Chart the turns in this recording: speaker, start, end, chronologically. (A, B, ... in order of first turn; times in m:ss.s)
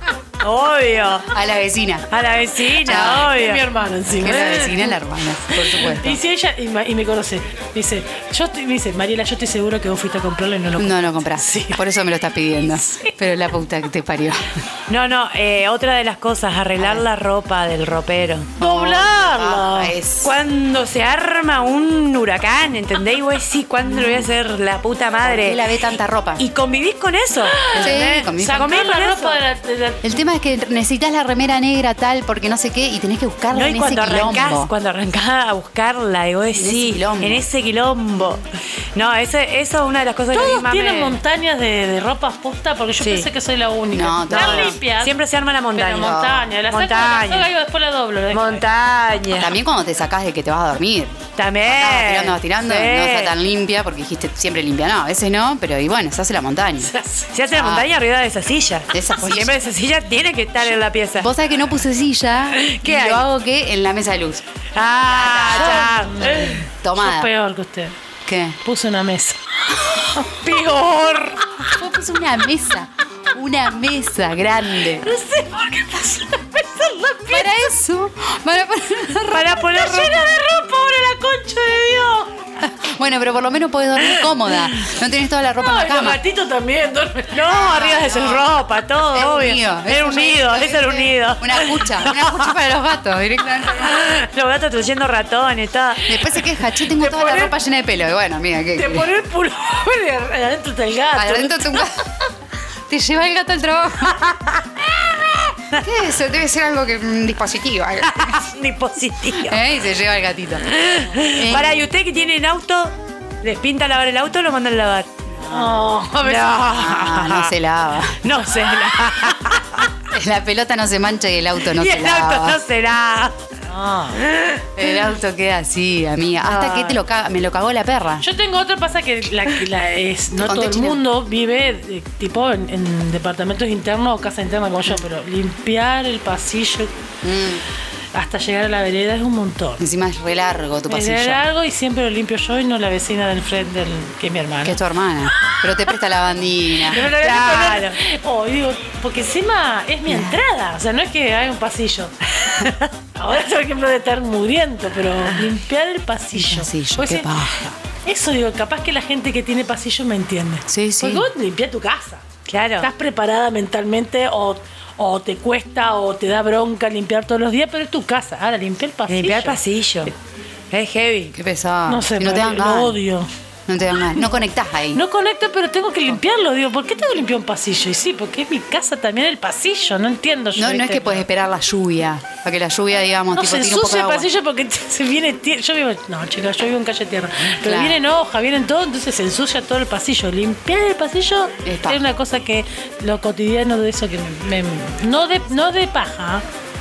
0:00.4-0:01.3 A
0:01.3-0:02.1 B
0:02.1-0:03.6 A
0:02.8-0:03.4 B
0:03.0-0:05.0 C
0:04.2-0:06.2 B
0:05.6-0:11.8 C
0:10.8-0:14.6 B
0:14.9-0:18.6 A
0:16.8-0:17.1 B
0:18.6-0:20.3 B
0:18.6-0:19.9 C
0:20.2-0:25.6 A
0:25.2-0:26.4 B
0:26.4-0:29.4 A
0:27.4-0:30.0 C
0:27.8-0:28.8 B
0:30.0-0:34.7 B
0:33.5-0:38.4 A
0:36.6-0:37.4 B
0:39.0-0:41.2 A
0:40.3-0:45.1 C
0:43.0-0:43.3 A
0:43.9-0:44.8 B
0:44.3-0:47.5 A
0:45.8-0:48.6 C
0:46.0-0:46.5 B
0:48.3-0:49.6 A
0:49.4-0:56.9 B
0:51.4-0:53.3 A
0:56.8-0:57.3 C
0:57.3-1:01.3 A
0:57.5-0:57.9 B
0:58.9-0:59.6 B
1:01.2-1:04.4 B
1:02.6-1:03.2 A
1:04.8-1:06.6 A
1:05.1-1:07.3 B
1:05.6-1:07.9 C
1:08.3-1:08.6 B
1:08.6-1:10.8 C
1:10.4-1:11.6 A
1:11.8-1:15.0 B
1:15.0-1:17.6 C
1:17.3-1:19.9 B
1:19.3-1:20.3 A
1:19.8-1:22.3 C
1:22.6-1:26.2 B
1:25.6-1:27.5 C
1:27.3-1:32.5 A
1:27.5-1:28.5 B
1:29.1-1:34.0 B
1:33.8-1:36.2 A
1:36.1-1:39.1 B
1:37.0-1:37.5 C
1:38.8-1:42.0 C
1:41.1-1:42.0 B
1:42.9-1:44.4 B
1:45.1-1:48.4 B
1:48.0-1:49.6 A
1:49.5-1:50.7 B
1:50.7-1:55.1 A
1:51.3-1:51.7 B
1:55.5-1:56.6 C
1:56.2-1:57.5 A
1:56.6-1:58.2 B
1:58.2-1:59.9 A
2:00.1-2:02.6 B
2:01.8-2:03.5 A
2:03.7-2:04.2 C
2:04.2-2:04.8 A
2:04.8-2:08.3 B
2:06.4-2:07.0 A
2:08.2-2:16.9 C
2:10.4-2:11.0 B
2:17.2-2:17.6 B
2:18.1-2:19.8 C
2:19.8-2:21.5 B
2:20.9-2:24.8 C
2:24.6-2:27.0 B
2:26.9-2:32.2 C
2:26.9-2:28.0 A
2:30.1-2:30.4 B
2:32.6-2:32.9 A
2:33.2-2:37.5 C
2:36.3-2:37.8 B
2:38.0-2:42.2 C
2:40.7-2:41.3 B
2:42.5-2:42.9 A
2:42.8-2:49.6 C
2:49.1-2:50.1 A
2:50.7-2:51.3 A
2:51.3-2:53.0 B
2:51.9-2:53.3 C
2:53.7-2:55.0 B
2:54.9-3:01.2 C
3:00.6-3:04.3 B
3:03.4-3:16.4 C
3:07.6-3:08.0 B
3:11.6-3:12.0 B